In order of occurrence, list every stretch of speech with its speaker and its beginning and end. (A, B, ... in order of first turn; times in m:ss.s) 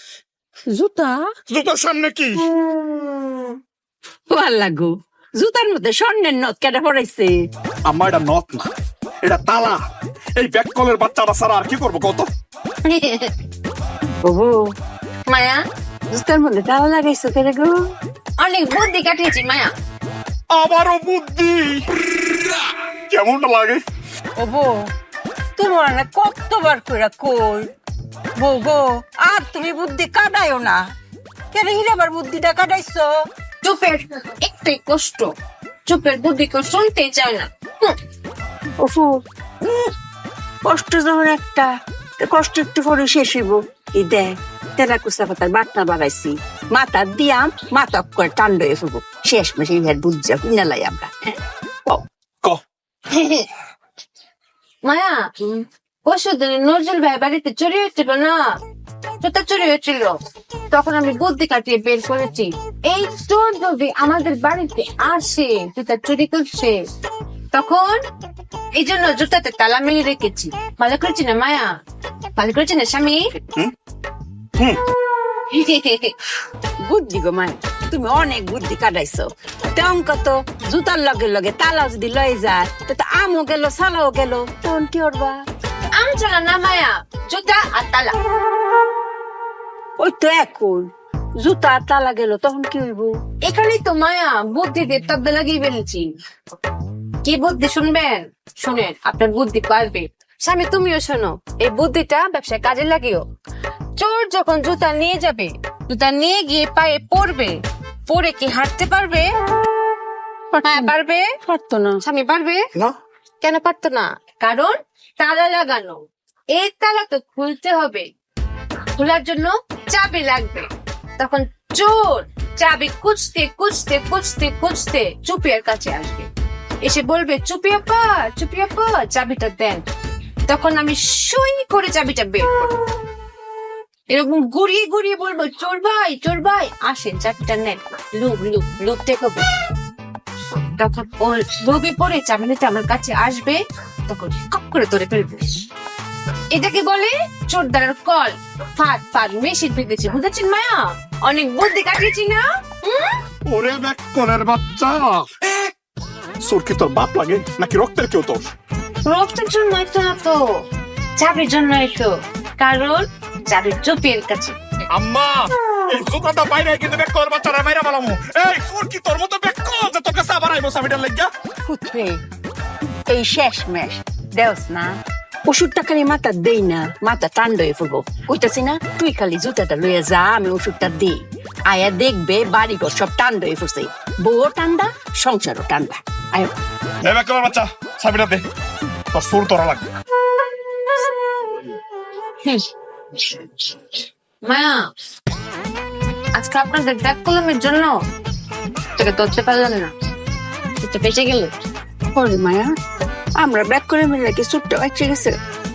0:00.7-0:01.4 A
0:01.5-0:02.4 B
0:04.3-0:07.4 A
0:07.8-0:08.7 B
0:09.2-0:09.8 B
0:10.4-0:12.3 B
0:12.8-0:13.3 C
0:14.2-0:14.7 A
0:15.3-0:15.6 C
0:16.1-0:17.9 A
0:18.4-0:19.7 C
0:20.5-0:23.8 B
0:24.4-0:24.8 A
0:25.6-0:27.7 A
0:28.4-0:30.9 A
0:31.5-0:33.2 A
0:33.6-0:35.3 C
0:35.9-0:38.0 C
0:38.8-0:39.2 A
0:40.6-0:51.4 A
0:54.8-0:58.6 C
0:59.2-1:00.2 C
1:00.7-1:06.8 C
1:07.5-1:08.0 C
1:08.8-1:11.7 C
1:12.4-1:13.3 C
1:15.5-1:16.2 C
1:16.8-1:25.4 A
1:25.9-1:28.2 C
1:30.0-1:33.2 A
1:33.4-1:36.1 C
1:37.2-1:43.3 C
1:44.0-1:49.3 C
1:50.5-1:50.9 A
1:50.7-1:51.3 C
1:51.4-1:52.0 A
1:52.0-1:52.7 C
1:53.4-1:56.0 C
1:56.5-1:58.1 C
1:59.0-2:06.3 C
2:06.8-2:09.8 C
2:10.5-2:12.7 C
2:14.1-2:19.5 C
2:20.6-2:25.6 C
2:26.5-2:33.2 C
2:33.4-2:35.7 B
2:36.4-2:38.4 B
2:39.0-2:40.7 C
2:41.2-2:44.6 C
2:44.9-2:51.3 B
2:51.7-2:52.2 A
2:53.1-2:55.0 A
2:55.5-3:06.5 A
3:07.0-3:08.4 B
3:09.1-3:09.9 B
3:14.4-3:14.8 C
3:16.4-3:17.9 C
3:19.0-3:19.9 C
3:20.8-3:21.5 C
3:22.1-3:22.7 A
3:23.4-3:25.3 A